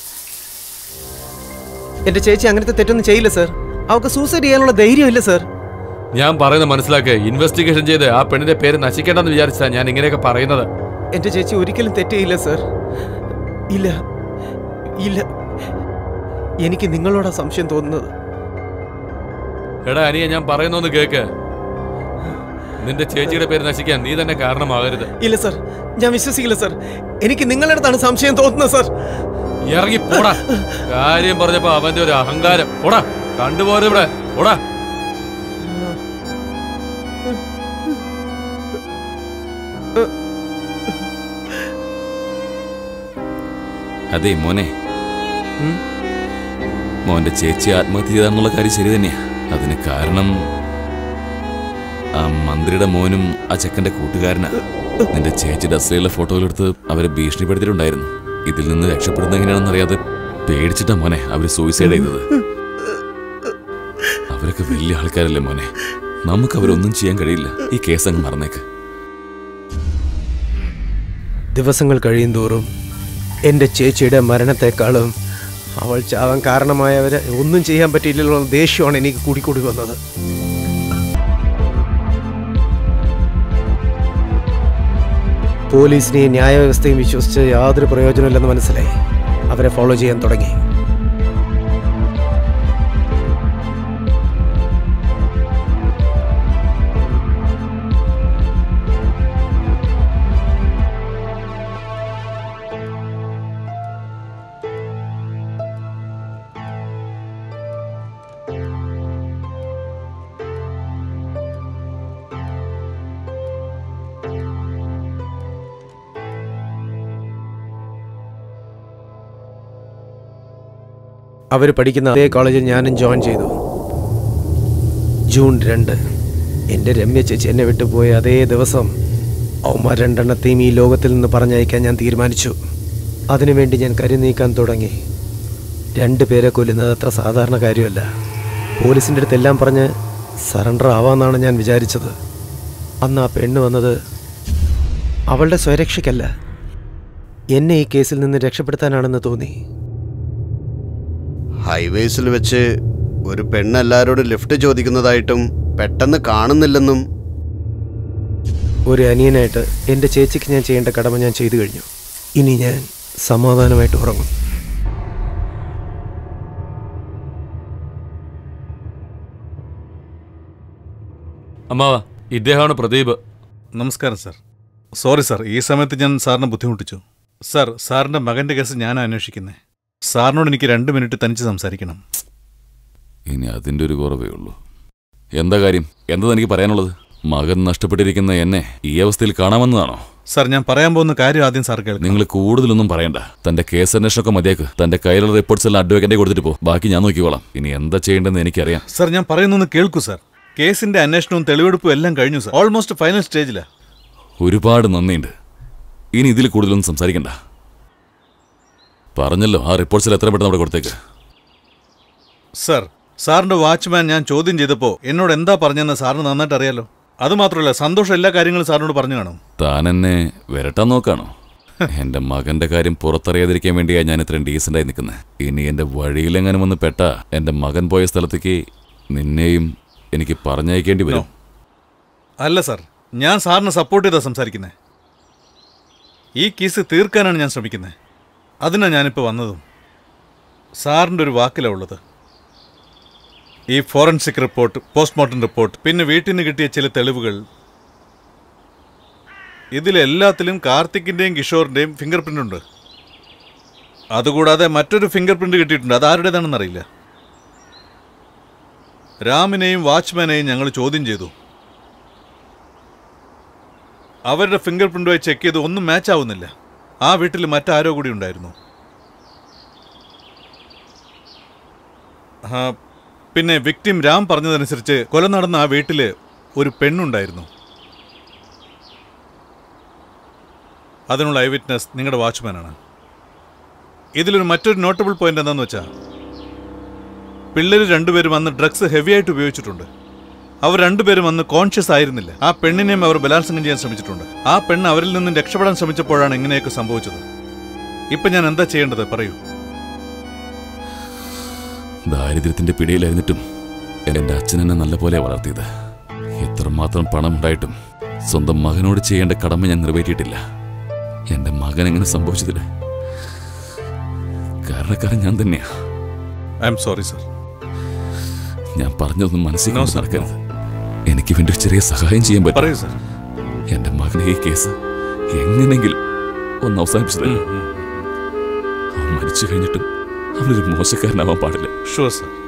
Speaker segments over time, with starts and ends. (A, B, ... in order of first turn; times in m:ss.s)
0:02.1-0:05.4 A
0:06.1-0:10.7 B
0:11.1-0:12.6 A
0:13.7-0:14.0 A
0:15.0-0:15.3 A
0:16.6-0:18.1 A
0:19.8-0:21.2 B
0:22.8-0:25.1 B
0:25.2-0:28.9 A
0:29.7-0:34.6 B
0:30.1-0:30.8 A
0:35.6-0:36.0 A
0:44.1-0:44.7 C
0:47.1-0:50.3 C
0:52.2-1:02.3 C
1:04.3-1:05.7 C
1:06.3-1:08.6 C
1:11.5-1:12.7 A
1:13.5-1:15.1 A
1:15.8-1:20.0 A
1:25.7-1:29.0 A
1:29.5-1:30.6 A
2:01.5-2:03.5 A
2:05.3-2:06.0 A
2:06.7-2:08.9 A
2:09.7-2:12.5 A
2:13.3-2:15.0 A
2:16.0-2:18.0 A
2:18.8-2:19.9 A
2:20.5-2:22.1 A
2:23.0-2:24.0 A
2:25.3-2:26.3 A
2:27.5-2:29.5 A
2:31.6-2:32.6 D
2:33.3-2:37.0 D
2:38.9-2:44.3 A
2:51.7-2:53.2 B
2:53.7-2:54.4 E
2:55.0-2:59.6 E
3:00.1-3:02.0 E
3:03.3-3:04.6 C
3:05.4-3:10.0 C
3:10.3-3:12.2 E
3:12.0-3:18.8 C
3:18.9-3:23.6 E
3:24.4-3:25.3 C
3:26.2-3:27.3 C
3:29.2-3:30.9 C
3:32.6-3:39.4 E
3:39.6-3:41.3 C
3:41.9-3:48.6 C
3:49.1-3:51.3 C
3:52.4-3:54.7 E
3:56.4-3:57.9 E
3:58.6-3:59.6 E
4:00.8-4:02.0 E
4:03.7-4:07.4 E
4:09.7-4:12.6 E
4:14.1-4:16.8 E
4:19.2-4:21.3 E
4:24.3-4:26.5 E
4:27.0-4:28.5 E
4:32.4-4:32.7 E
4:33.3-4:37.5 E
4:41.1-4:42.8 E
4:44.2-4:45.9 E
4:47.5-4:49.9 E
4:50.6-4:57.2 E
4:58.1-4:59.4 E
5:02.1-5:03.4 C
5:04.1-5:05.6 C
5:06.4-5:07.7 C
5:08.3-5:10.4 C
5:11.3-5:12.6 C
5:14.7-5:15.6 C
5:16.6-5:17.2 E
5:18.8-5:20.4 C
5:19.7-5:20.3 E
5:21.1-5:22.7 C
5:22.5-5:22.9 E
5:23.7-5:24.7 C
5:25.3-5:26.0 C
5:26.6-5:27.4 C
5:27.2-5:28.1 E
5:29.0-5:29.8 C
5:30.4-5:31.7 C
5:31.9-5:32.3 E